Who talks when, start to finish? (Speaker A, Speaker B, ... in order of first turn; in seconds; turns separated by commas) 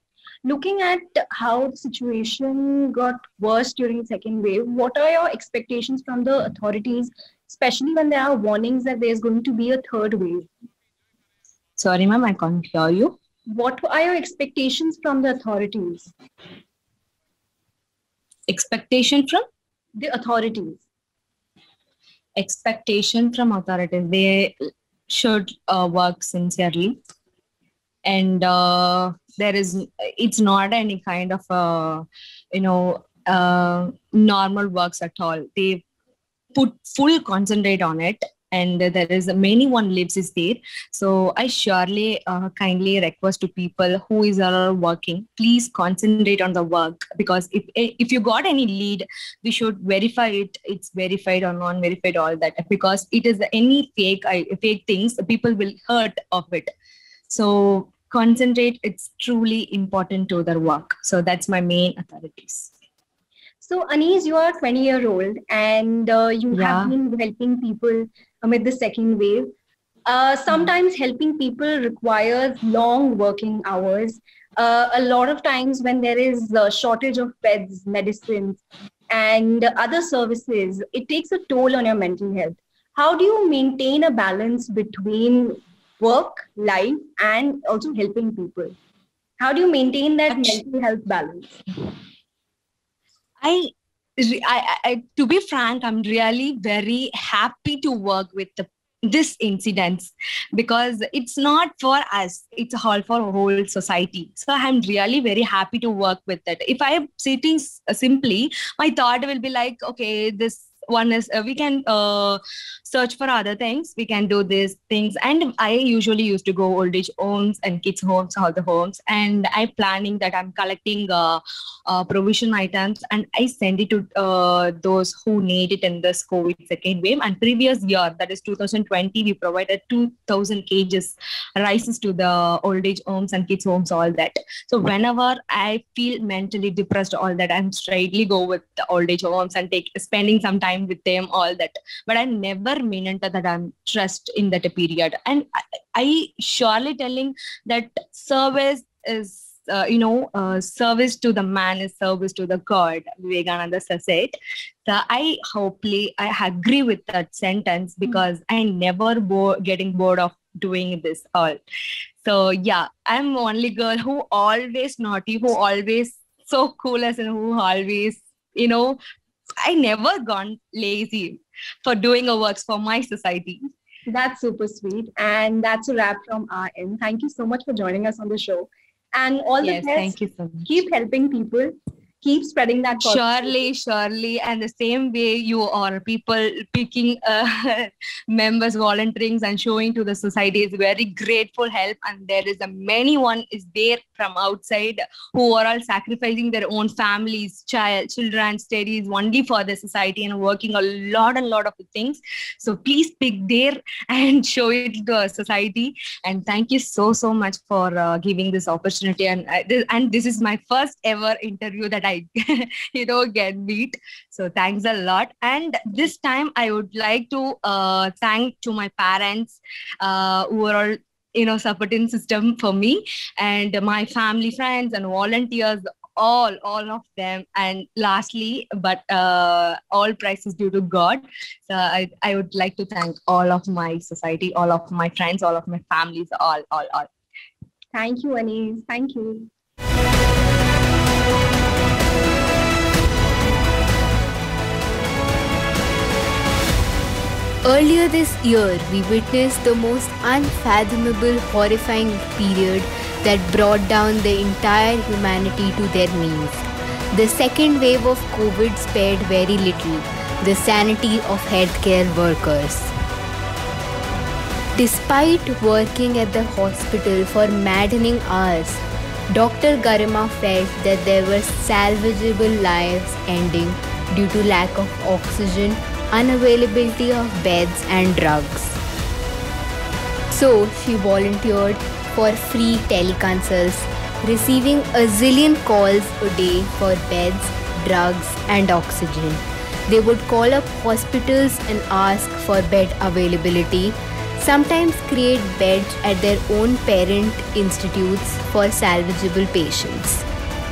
Speaker A: 0.4-10.5, Speaker B: 11.8-13.2, Speaker A: 13.5-16.1, Speaker B: 18.5-19.4, Speaker A: 20.0-20.8, Speaker B: 22.4-27.0, Speaker B: 28.0-35.8, Speaker B: 36.5-56.7, Speaker B: 57.3-62.7, Speaker A: 63.6-69.5, Speaker B: 66.5-66.9, Speaker A: 70.0-88.8, Speaker A: 89.4-91.6, Speaker B: 90.3-90.6, Speaker B: 93.4-161.6, Speaker B: 162.2-169.0, Speaker B: 169.6-173.7, Speaker A: 174.1-183.7, Speaker B: 179.6-180.7, Speaker B: 183.0-237.1, Speaker A: 237.9-239.5, Speaker C: 247.6-262.9, Speaker C: 264.7-278.8, Speaker C: 280.3-300.2